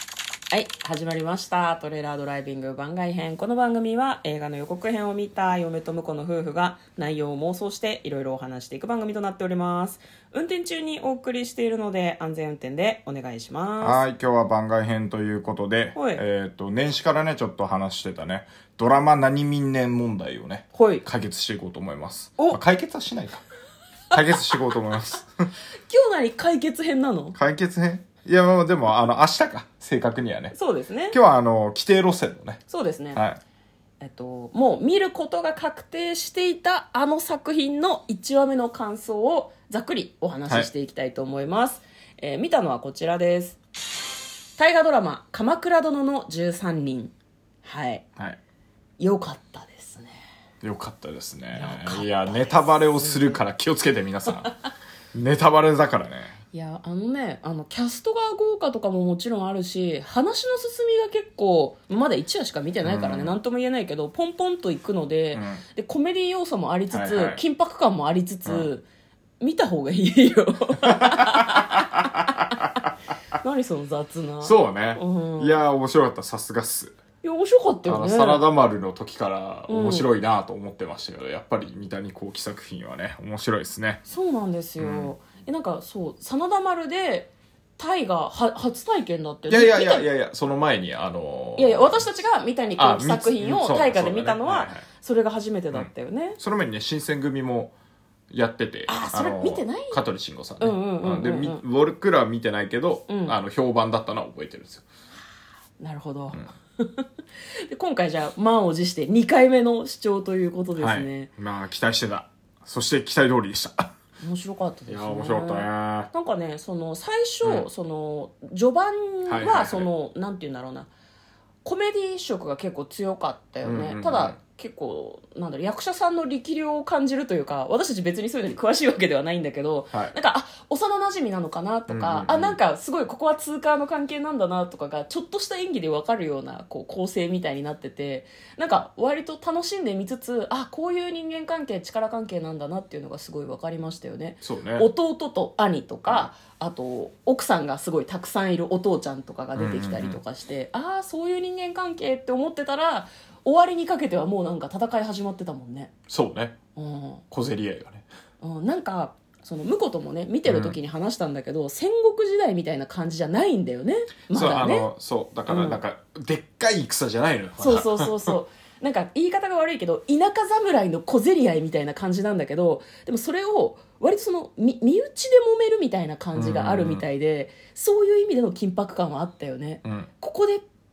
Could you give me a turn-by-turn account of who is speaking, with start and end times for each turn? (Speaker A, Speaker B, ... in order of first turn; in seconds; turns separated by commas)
Speaker A: 0.5-14.0, Speaker B: 13.8-23.4, Speaker A: 15.9-16.2, Speaker A: 20.7-21.1, Speaker B: 24.1-25.5, Speaker A: 25.9-27.4, Speaker B: 27.4-30.6, Speaker A: 30.5-31.2, Speaker B: 31.1-32.6, Speaker A: 32.7-33.2, Speaker B: 33.1-33.4, Speaker A: 34.0-43.6, Speaker A: 44.6-47.1, Speaker A: 47.6-48.0, Speaker A: 49.0-50.2, Speaker B: 50.6-54.5, Speaker A: 51.5-53.4, Speaker B: 55.1-56.4, Speaker A: 56.5-68.8, Speaker B: 62.8-63.4, Speaker B: 65.3-65.6, Speaker B: 66.9-67.4, Speaker A: 69.4-72.2, Speaker B: 70.8-72.7, Speaker A: 73.4-75.6, Speaker B: 74.4-77.0, Speaker A: 77.2-78.5, Speaker B: 77.9-84.0, Speaker A: 79.7-80.1, Speaker A: 84.1-90.1, Speaker B: 84.8-85.2, Speaker B: 89.5-92.2, Speaker A: 91.6-96.4, Speaker B: 92.8-94.8, Speaker B: 95.7-97.8, Speaker B: 98.3-104.8, Speaker A: 98.9-100.0, Speaker A: 100.6-101.6, Speaker A: 103.1-103.4, Speaker A: 105.8-107.1, Speaker A: 107.7-111.3, Speaker B: 110.8-113.9, Speaker A: 114.2-120.9, Speaker B: 114.9-116.1, Speaker B: 117.4-117.7, Speaker B: 119.3-119.9, Speaker A: 121.6-155.9, Speaker B: 123.6-124.4, Speaker B: 131.9-132.6, Speaker B: 144.4-144.9, Speaker B: 149.6-150.2, Speaker B: 156.1-156.6, Speaker A: 156.8-157.2, Speaker B: 157.3-158.1, Speaker A: 158.4-164.9, Speaker B: 160.4-160.8, Speaker B: 164.3-168.3, Speaker A: 165.5-165.8, Speaker A: 167.6-180.6, Speaker B: 176.3-177.1, Speaker B: 179.8-180.1